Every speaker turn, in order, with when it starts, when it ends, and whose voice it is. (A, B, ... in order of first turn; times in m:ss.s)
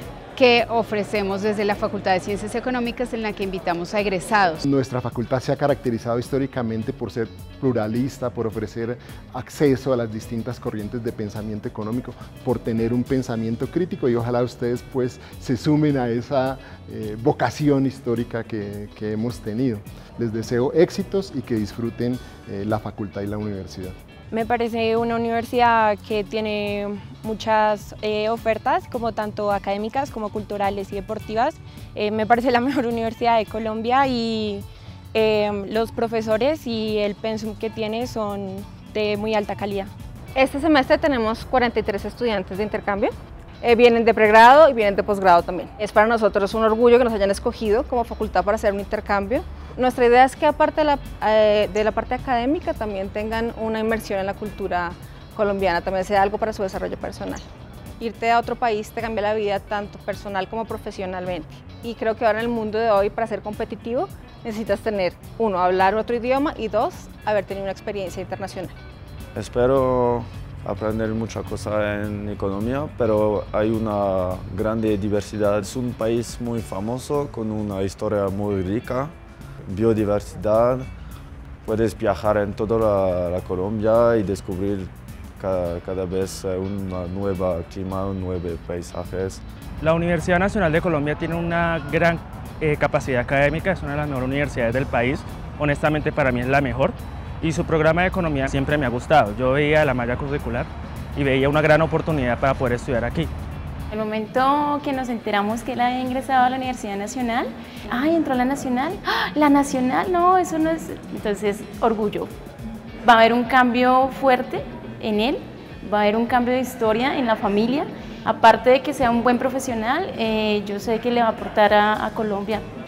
0:00.4-0:04.6 A
0:04.6-0:24.0 B
0:24.3-0:39.9 C
0:40.4-0:57.4 D
0:58.0-1:08.8 D
1:09.4-1:19.1 E
1:19.7-1:20.9 E
1:21.6-1:29.4 E
1:29.8-1:43.3 F
1:43.9-1:52.3 G
1:53.0-2:02.6 G